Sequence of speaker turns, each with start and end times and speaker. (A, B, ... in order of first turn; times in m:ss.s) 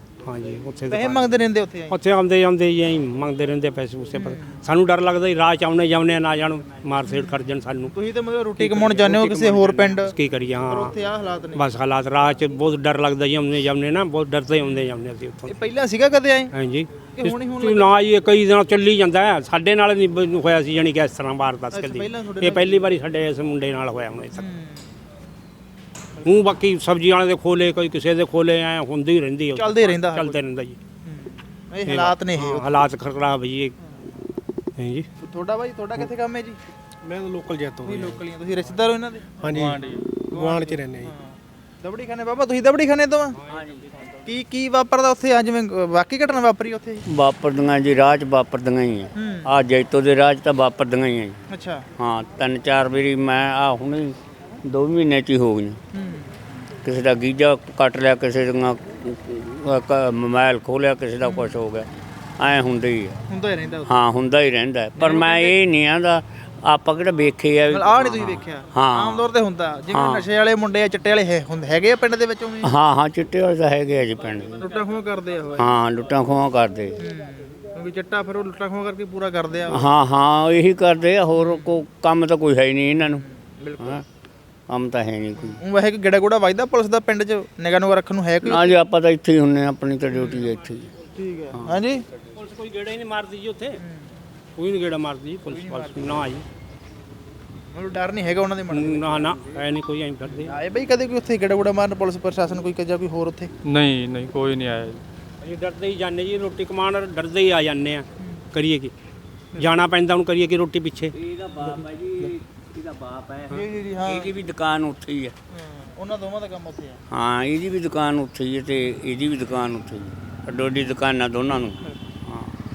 0:00.2-0:01.4 A
0:00.9-0:02.0 B
0:01.9-0:07.9 A
0:04.2-0:04.6 B
0:07.1-0:10.1 B
0:08.6-0:11.0 A
0:10.7-0:11.6 B
0:11.5-0:15.6 A
0:14.6-0:14.9 B
0:15.5-0:16.5 B
0:16.5-0:24.5 A
0:17.2-0:18.0 B
0:21.7-0:22.9 B
0:24.4-0:24.9 B
0:26.2-0:30.8 A
0:29.6-0:30.4 B
0:31.0-0:32.6 B
0:31.9-0:33.8 A
0:34.8-0:35.1 A
0:35.2-0:36.6 B
0:37.1-0:38.2 C
0:37.8-0:39.5 B
0:39.4-0:39.8 C
0:39.4-0:40.0 D
0:40.3-0:43.4 B
0:40.3-0:41.1 C
0:43.4-0:43.6 A
0:44.2-0:47.0 B
0:47.1-0:51.4 E
0:49.2-0:49.5 B
0:51.5-0:51.9 B
0:52.0-0:55.8 E
0:55.9-0:56.3 B
0:56.8-1:03.2 E
1:01.2-1:01.6 B
1:03.3-1:03.9 B
1:03.9-1:09.3 E
1:05.0-1:05.6 B
1:07.7-1:12.7 B
1:09.9-1:10.3 E
1:12.6-1:14.6 E
1:14.6-1:15.7 B
1:15.6-1:17.0 E
1:17.0-1:19.9 B
1:19.7-1:23.2 E
1:21.3-1:21.8 B
1:23.1-1:24.0 B
1:24.7-1:25.6 E
1:25.4-1:28.8 B
1:28.4-1:30.9 E
1:30.1-1:30.6 B
1:31.2-1:32.0 B
1:32.4-1:33.8 A
1:33.8-1:34.2 B
1:34.6-1:36.4 A
1:35.5-1:36.3 B
1:37.7-1:39.4 B
1:38.7-1:40.6 A
1:40.3-1:43.5 B
1:43.6-1:45.0 D
1:45.4-1:48.9 A
1:49.6-1:51.2 A
1:51.2-1:55.4 E
1:53.5-1:54.3 B
1:55.5-1:57.0 B
1:57.1-2:02.6 E